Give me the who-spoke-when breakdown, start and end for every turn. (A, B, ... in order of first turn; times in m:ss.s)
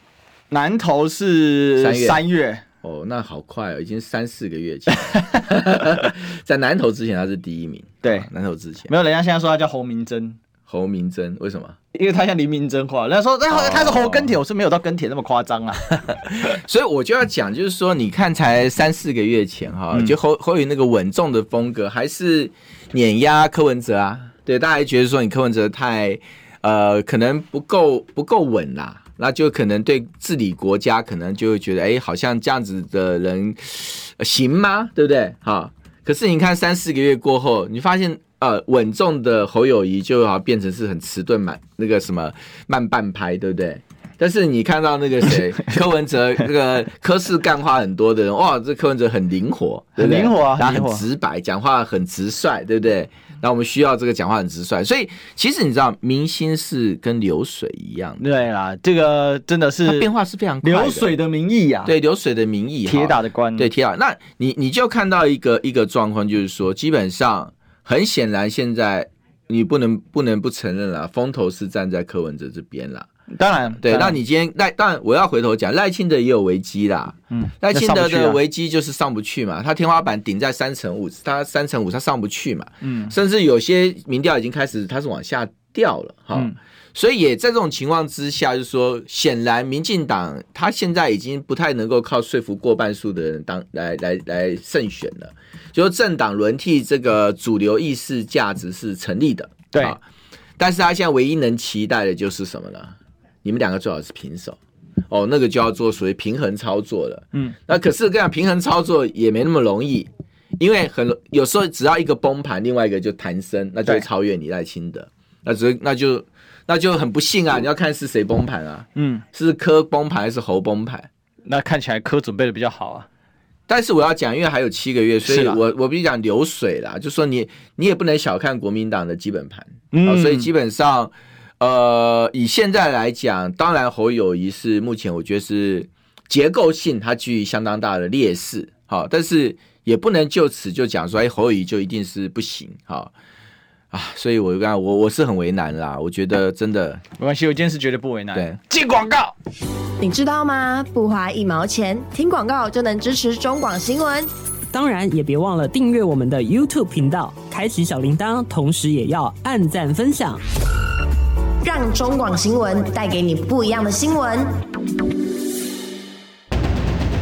0:00.5-0:02.6 A
0:01.8-0:02.2 B
0:02.8-0:08.9 B
0:04.9-0:05.4 A
0:08.0-0:08.3 A
0:08.9-0:10.4 A
0:10.7-0:11.8 B
0:11.9-0:15.9 A
0:13.5-0:14.3 B
0:16.0-0:58.2 B
0:50.0-0:51.0 A
0:58.2-1:00.1 A
0:59.8-1:01.1 B
1:00.6-1:01.9 A
1:01.8-1:13.1 B
1:02.8-1:03.6 A
1:13.3-1:14.2 A
1:13.8-1:40.0 B
1:17.3-1:18.4 A
1:22.8-1:23.1 A
1:40.6-1:44.6 B
1:45.1-2:01.1 B
1:59.0-1:59.2 A
2:01.4-2:03.1 A
2:03.7-2:23.1 B
2:05.2-2:05.6 A
2:09.9-2:10.5 A
2:23.9-2:27.0 B
2:27.2-2:29.3 A
2:30.0-2:34.3 C
2:34.7-2:40.4 D
2:41.6-2:44.6 C